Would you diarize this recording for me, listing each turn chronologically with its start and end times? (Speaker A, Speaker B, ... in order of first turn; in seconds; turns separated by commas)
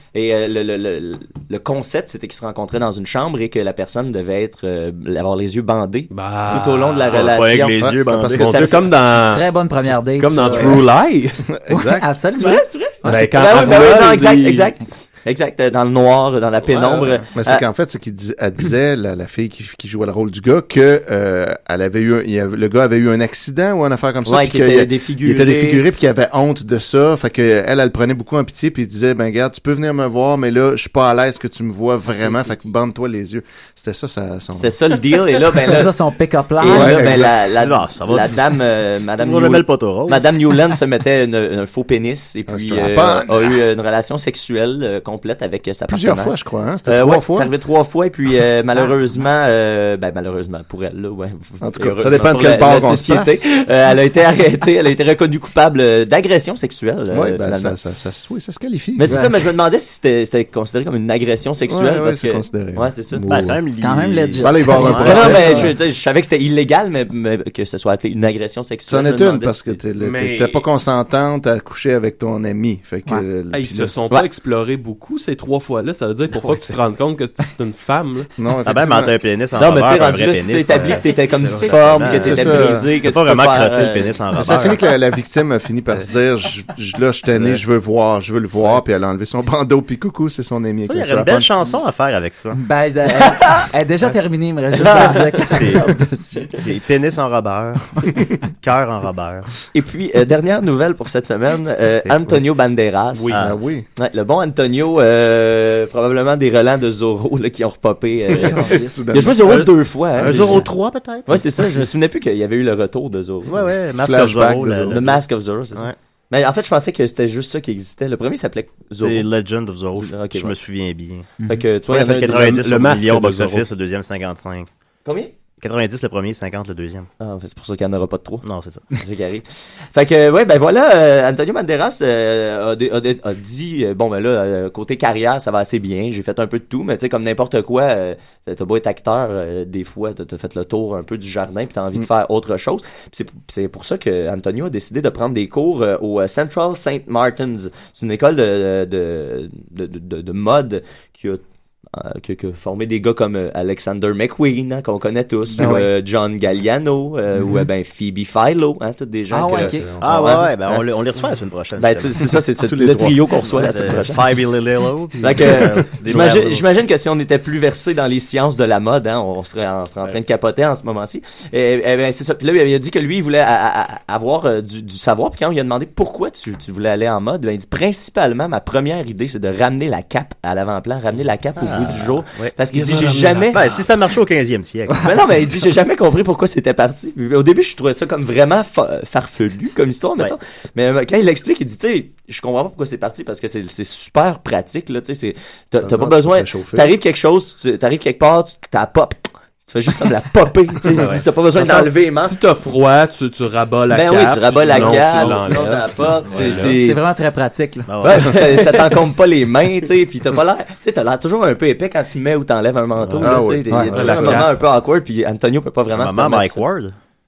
Speaker A: 0.1-8.8, Speaker B: 6.1-7.3, Speaker C: 7.1-8.7, Speaker D: 7.8-8.7, Speaker B: 8.4-11.4, Speaker E: 9.2-10.8, Speaker D: 10.3-10.8, Speaker D: 11.5-12.1, Speaker E: 11.7-13.2, Speaker A: 12.3-17.6, Speaker B: 13.0-14.7, Speaker D: 13.1-14.0, Speaker B: 16.6-17.2, Speaker D: 17.3-34.8, Speaker A: 24.2-25.8, Speaker A: 34.5-35.9, Speaker E: 35.5-37.0, Speaker A: 36.6-46.3, Speaker D: 36.6-37.3, Speaker C: 37.1-38.4, Speaker C: 39.2-40.3, Speaker D: 42.5-43.5, Speaker D: 45.9-47.5, Speaker A: 46.9-57.7, Speaker D: 51.6-53.5, Speaker D: 57.1-59.1, Speaker A: 59.0-63.5, Speaker E: 59.1-59.3, Speaker D: 61.7-63.6, Speaker C: 63.3-65.6, Speaker E: 63.8-65.7, Speaker D: 64.4-65.7, Speaker A: 65.0-69.8, Speaker D: 68.9-74.0, Speaker B: 70.0-70.7, Speaker B: 73.5-78.3, Speaker D: 78.4-79.1, Speaker C: 78.7-84.8, Speaker A: 79.6-84.6, Speaker D: 82.0-82.9, Speaker D: 84.3-91.5, Speaker C: 87.3-87.6, Speaker C: 90.9-92.6, Speaker E: 92.5-96.5, Speaker A: 94.8-95.8, Speaker C: 94.8-95.8, Speaker C: 96.6-99.5, Speaker A: 99.7-110.7, Speaker C: 103.3-103.5, Speaker D: 103.3-103.8, Speaker D: 108.3-109.7, Speaker E: 108.4-109.0, Speaker C: 109.4-111.8, Speaker D: 110.2-110.5, Speaker A: 111.3-113.7, Speaker C: 113.5-115.2, Speaker D: 113.9-115.0, Speaker A: 114.9-119.3, Speaker C: 119.0-121.3, Speaker A: 120.0-120.5, Speaker E: 121.4-121.7, Speaker A: 121.5-122.4, Speaker C: 121.9-124.7, Speaker B: 122.0-123.7, Speaker A: 125.0-125.3, Speaker C: 125.6-127.1, Speaker A: 127.2-151.4, Speaker C: 128.4-128.8, Speaker A: 151.9-160.7, Speaker D: 155.6-155.9, Speaker E: 159.3-159.9, Speaker D: 159.5-160.8, Speaker C: 160.0-162.3, Speaker A: 161.8-164.4, Speaker D: 162.6-164.0, Speaker C: 163.5-166.6, Speaker A: 165.2-183.7, Speaker C: 181.6-185.4, Speaker B: 182.8-183.4, Speaker E: 184.9-185.5, Speaker A: 185.0-202.4, Speaker D: 195.7-196.9, Speaker C: 200.9-201.9, Speaker B: 202.1-206.7, Speaker A: 203.9-207.0, Speaker C: 204.6-206.7, Speaker D: 206.3-206.6, Speaker E: 206.6-207.9, Speaker C: 207.9-208.7, Speaker A: 208.0-216.6, Speaker D: 213.0-214.4, Speaker E: 213.7-213.9, Speaker B: 213.9-214.6, Speaker C: 215.9-216.9